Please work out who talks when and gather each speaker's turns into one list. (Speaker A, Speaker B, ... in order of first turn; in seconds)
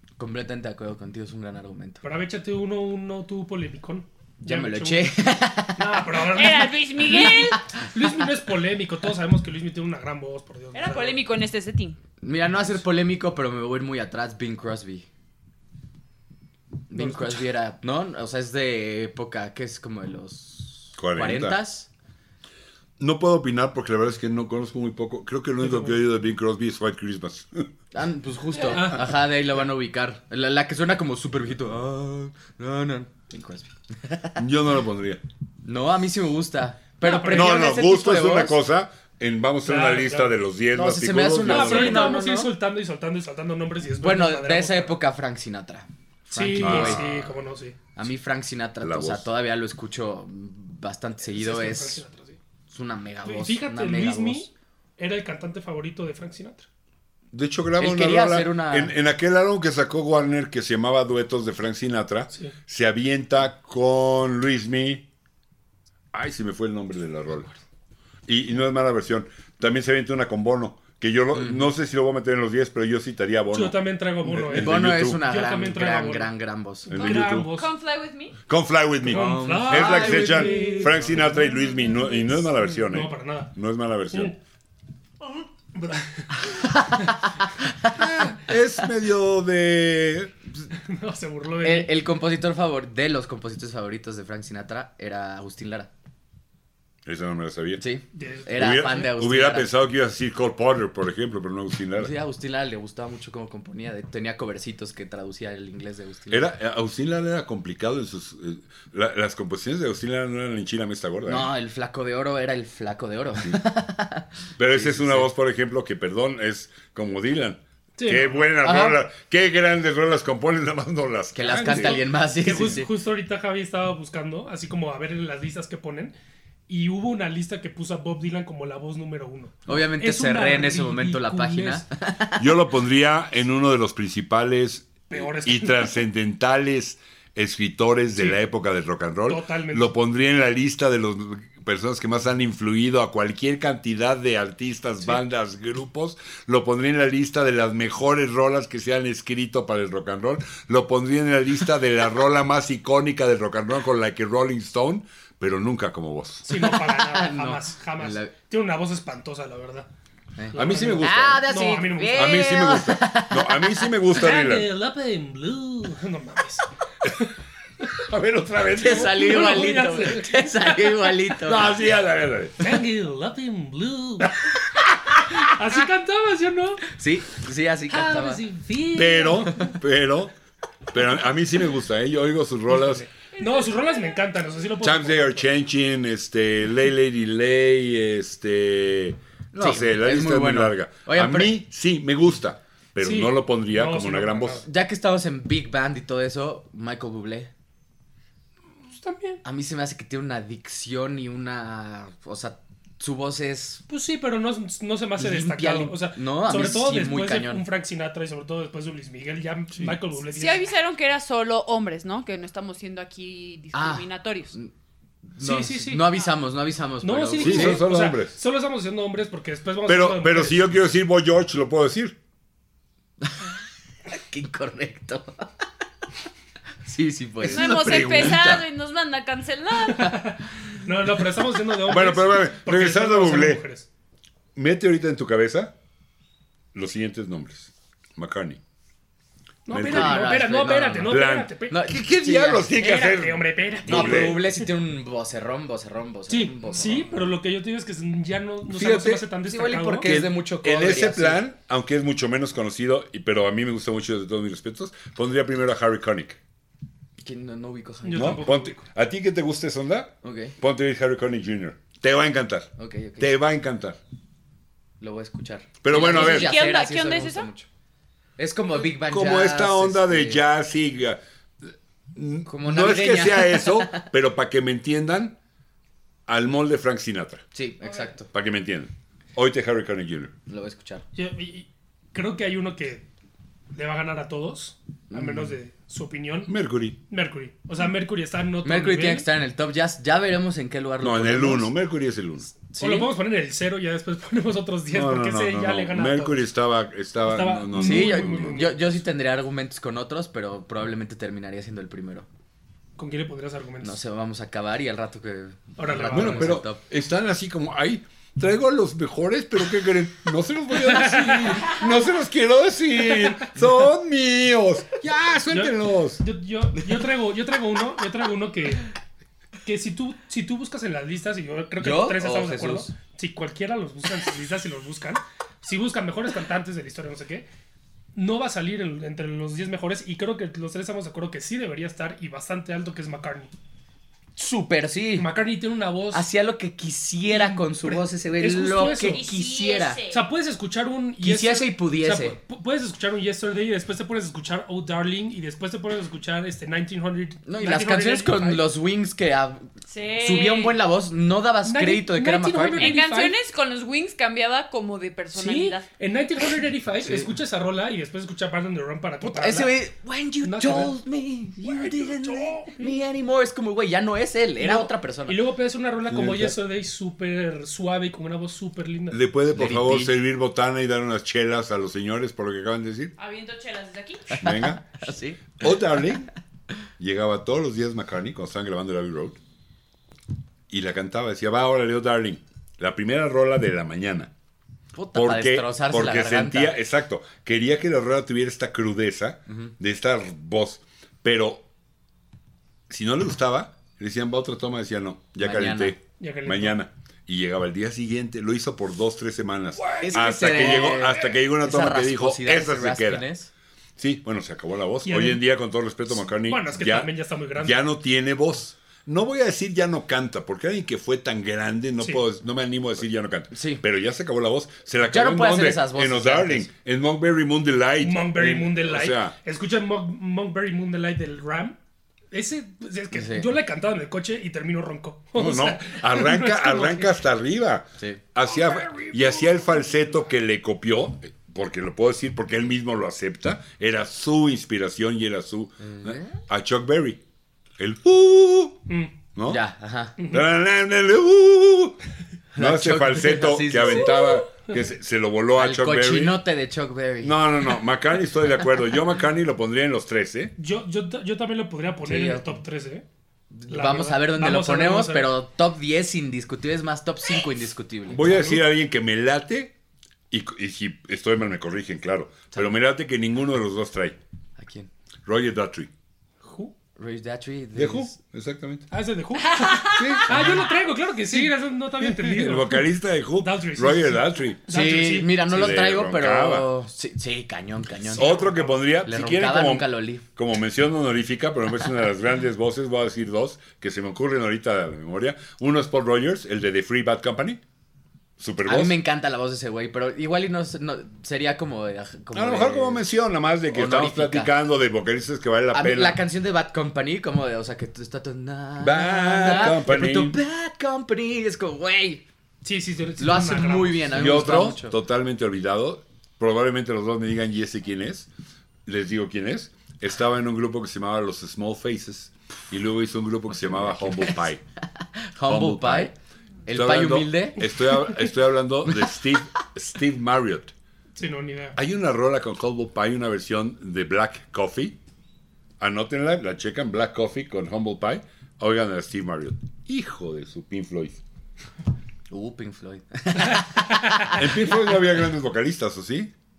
Speaker A: 0.2-2.0, 4.4-6.1, 12.2-15.1, 16.9-21.9, 27.9-34.4, 35.6-38.6, 40.7-42.5, 44.0-47.2, 47.9-52.0, 52.7-54.5, 57.8-58.9, 71.3-71.7, 74.5-76.9, 79.1-81.3, 86.6-87.9, 91.6-95.9, 97.8-99.7, 102.0-106.5, 111.2-115.3, 118.6-119.0, 121.3-122.9, 129.7-132.5, 156.5-158.3, 160.4-163.9, 168.8-171.7, 176.9-178.4, 189.6-191.5, 194.7-197.5, 199.4-203.8, 205.2-207.6, 213.7-214.7, 215.3-217.9, 224.1-225.4, 226.8-228.6, 239.8-242.7, 243.8-247.1, 249.4-251.4, 257.2-258.5, 260.2-260.6, 262.8-263.3, 265.0-267.7, 268.4-270.4, 272.4-274.0, 277.5-278.3, 280.5-281.0, 285.1-285.6, 288.6-291.7, 292.8-293.1, 297.7-302.3, 303.8-306.8, 316.8-317.1, 321.8-322.9, 334.4-335.3, 336.1-340.0, 341.2-342.4, 347.4-349.6, 350.2-352.9, 359.2-365.4, 369.5-370.1, 374.3-376.1, 384.9-386.8, 395.4-395.9, 399.9-403.5, 413.5-413.8, 415.1-416.7, 423.1-423.5, 435.8-436.4, 439.5-440.2, 442.5-444.2, 445.6-447.4, 452.0-452.4, 453.5-458.3, 464.6-464.9, 467.0-468.1, 474.7-478.4, 479.0-480.2, 488.6-493.1, 493.7-494.5, 495.7-502.2, 503.2-505.0, 513.9-514.5, 515.0-516.1, 516.6-517.9, 532.3-534.7
Speaker B: 2.0-5.2, 5.8-11.2, 16.9-17.4, 25.6-26.0, 28.7-29.2, 37.0-37.7, 39.6-40.4, 41.4-45.0, 46.3-47.8, 51.2-52.4, 53.2-56.7, 73.5-76.3, 76.8-77.7, 79.1-81.4, 82.5-83.5, 85.7-86.7, 90.8-91.9, 98.1-99.1, 118.0-118.5, 121.4-126.2, 126.7-131.9, 135.1-136.0, 139.3-139.9, 156.4-159.9, 160.5-162.5, 164.1-167.3, 168.8-171.2, 172.6-174.4, 175.2-176.9, 177.9-179.8, 182.7-185.5, 193.0-194.7, 198.9-199.4, 203.9-210.7, 215.4-216.1, 217.0-220.8, 229.9-233.9, 239.7-241.8, 242.8-244.7, 246.3-250.1, 258.0-258.8, 281.1-283.1, 283.7-286.5, 287.1-289.3, 292.7-296.4, 297.2-298.9, 303.0-304.0, 305.8-306.6, 310.8-311.8, 313.1-313.5, 315.5-318.9, 319.6-327.5, 328.1-333.5, 335.2-336.3, 337.3-339.2, 340.1-348.6, 351.6-353.4, 355.3-359.8, 360.4-360.9, 361.6-363.0, 364.6-369.2, 396.2-396.8, 399.8-401.2, 405.0-405.4, 406.3-407.8, 418.0-421.8, 422.3-427.1, 428.5-430.0, 438.9-439.1, 440.2-440.4, 444.2-444.7, 450.6-453.1, 453.7-455.3, 458.2-458.6, 466.4-466.7, 468.9-475.4, 478.1-478.8, 502.6-504.5, 521.1-521.8, 533.5-534.3
Speaker C: 6.2-7.6, 10.7-12.0, 77.0-78.4, 183.4-183.9, 210.3-214.6, 227.4-230.2, 265.9-267.5, 338.7-340.2, 349.9-350.8, 352.8-355.8, 373.2-374.4, 469.4-470.3
Speaker D: 21.0-21.6, 23.0-27.7, 34.4-35.2, 37.3-42.1, 46.6-47.3, 48.8-49.3, 57.3-65.0, 66.1-67.5, 68.2-75.2, 76.9-77.5, 78.5-84.3, 87.9-90.3, 97.0-97.8, 98.6-102.1, 106.3-111.5, 114.6-122.0, 132.4-156.5, 160.5-161.5, 162.1-164.7, 167.9-169.7, 171.4-172.7, 178.9-180.3, 180.9-183.1, 184.8-194.6, 217.4-218.3, 219.9-222.2, 227.4-228.7, 231.9-233.6, 234.6-235.7, 236.7-238.6, 239.7-240.4, 241.1-244.4, 248.7-249.2, 250.0-256.4, 258.1-264.0, 265.8-266.6, 268.9-275.3, 276.3-277.4, 278.3-280.3, 286.5-286.9, 291.0-292.5, 294.9-298.6, 306.1-316.2, 366.1-366.6, 369.1-373.1, 374.4-374.9, 375.6-376.3, 377.0-379.4, 380.7-384.3, 385.1-391.7, 392.9-403.2, 404.0-419.3, 425.3-437.2, 437.8-438.8, 439.3-439.6, 440.3-442.0, 442.6-446.4, 447.2-450.5, 458.1-459.7, 460.3-464.2, 465.3-465.9, 467.8-468.9, 469.9-470.6, 472.0-474.6, 475.4-476.7, 478.1-487.6, 488.4-489.0, 492.3-496.2, 498.8-500.4, 504.1-508.3, 508.9-514.6, 515.4-516.1, 516.7-520.7, 521.8-525.0, 525.8-531.2, 534.3-536.3